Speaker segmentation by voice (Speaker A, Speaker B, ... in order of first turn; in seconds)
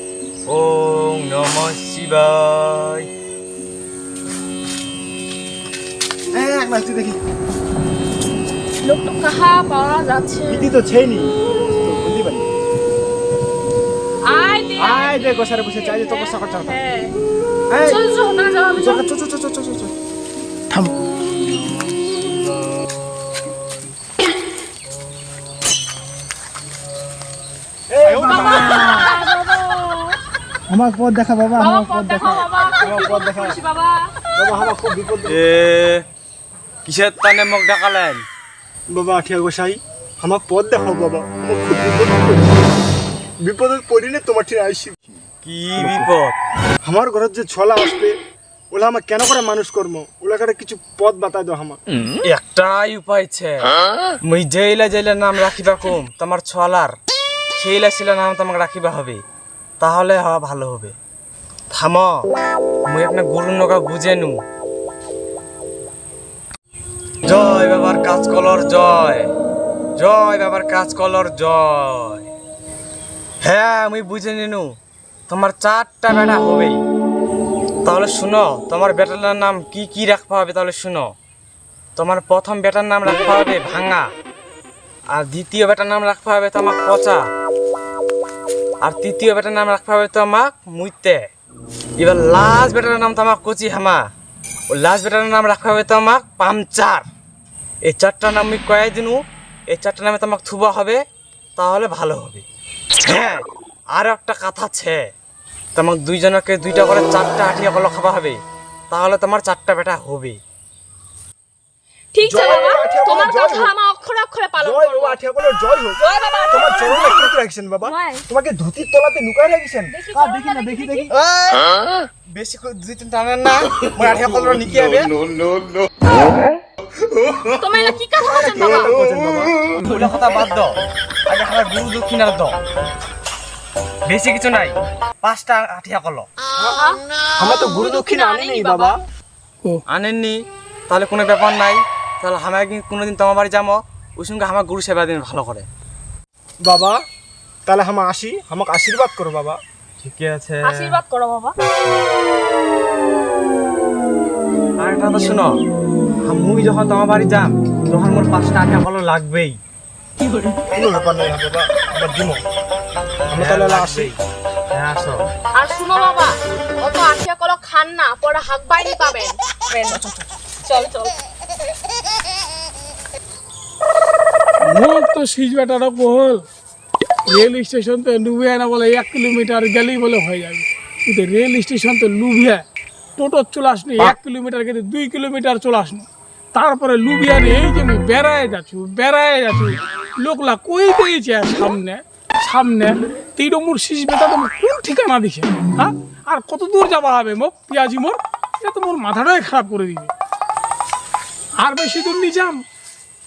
Speaker A: 0.5-3.1, 35.3-36.0, 36.9-38.2, 45.4-46.4, 52.2-53.5, 54.3-56.9, 57.6-59.2, 59.8-60.9, 61.7-62.3, 62.9-64.4, 67.2-69.3, 70.0-72.2, 73.4-74.7, 75.3-76.8, 77.8-81.1, 82.0-84.1, 85.1-87.2, 88.8-91.2, 92.0-94.0, 94.7-97.0, 97.8-99.2, 99.7-101.0, 101.6-102.4, 103.0-103.4, 103.9-105.0, 105.7-108.4, 108.9-110.4, 121.1-121.7, 122.3-125.1, 129.8-130.7, 131.3-132.6, 134.1-136.3, 139.9-140.3, 140.9-145.7, 150.0-151.0, 154.8-155.5, 156.2-159.6, 163.3-164.2, 164.7-165.2
Speaker B: 6.3-7.2, 10.5-12.5, 14.8-16.8, 17.7-18.0, 18.7-19.9, 27.9-29.1, 30.7-33.5, 34.4-35.4, 38.9-42.5, 43.5-44.9, 45.8-46.1, 46.9-48.1, 48.7-51.8, 112.2-113.7, 114.6-116.0, 116.5-121.1, 128.2-129.5, 137.4-139.0, 146.6-147.0, 147.7-149.6, 160.7-162.4, 163.3-164.1, 169.9-170.2
Speaker C: 8.8-10.7, 14.3-15.2, 15.7-17.1, 17.8-19.0, 28.2-30.2, 31.6-33.9, 112.1-115.2, 116.0-118.2, 119.9-121.1, 127.5-128.9, 136.8-138.9, 150.6-151.6, 165.6-170.0, 170.6-171.1
Speaker D: 20.7-21.0, 174.6-176.4, 177.3-182.6, 183.2-200.1, 201.6-202.6